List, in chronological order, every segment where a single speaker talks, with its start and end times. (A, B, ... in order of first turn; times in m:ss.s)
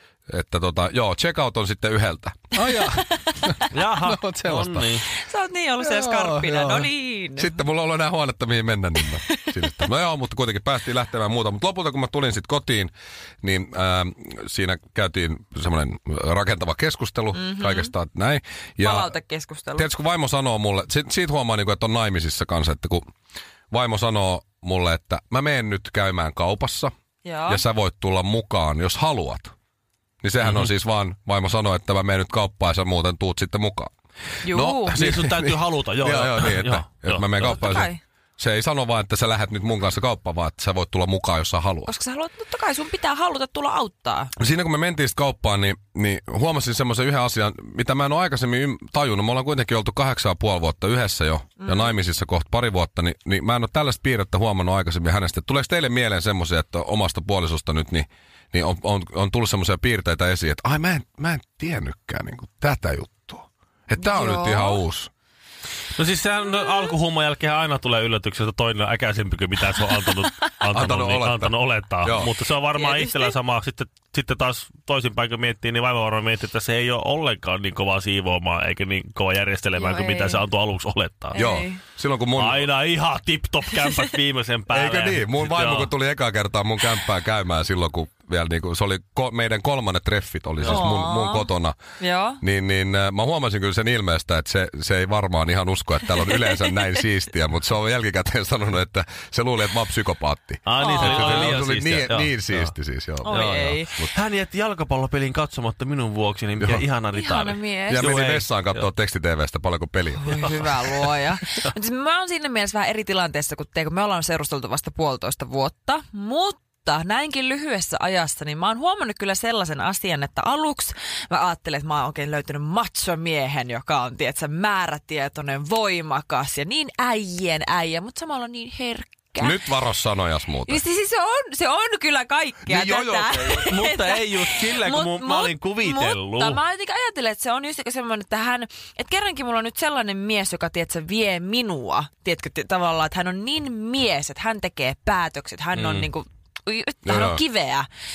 0:00.3-0:04.9 A
0:02.7-0:03.4 B
0:03.7-0:05.0 C
0:05.1-0:07.6 B
0:05.8-0:19.1 A
0:09.0-0:09.8 B
0:17.3-0:17.9 B
0:18.8-0:19.9 B
0:19.7-0:23.0 A
0:23.7-0:26.9 A
0:27.2-0:27.6 B
0:27.5-0:29.5 A
0:30.2-0:33.9 A
0:30.4-0:30.7 C
0:34.4-0:35.0 B
0:34.5-0:41.9 A
0:34.9-0:37.7 C
0:37.4-0:38.0 B
0:41.8-0:44.3 B
0:44.4-1:05.1 A
0:51.6-0:52.0 B
1:04.0-1:04.8 B
1:06.0-1:21.4 C
1:10.7-1:12.3 A
1:12.8-1:13.3 B
1:19.8-1:20.4 B
1:21.3-1:21.8 B
1:21.3-1:22.7 A
1:22.4-1:25.9 C
1:24.7-1:31.8 A
1:30.6-1:32.4 B
1:32.4-1:44.1 A
1:40.6-1:42.7 C
1:40.8-1:41.6 B
1:43.2-1:43.9 B
1:43.3-1:48.8 C
1:47.1-1:48.2 B
1:47.9-1:50.8 A
1:50.2-2:09.6 B
2:09.4-2:10.8 A
2:10.6-2:27.9 B
2:12.6-2:13.7 A
2:13.6-2:16.6 C
2:25.7-2:26.1 C
2:27.0-2:27.4 A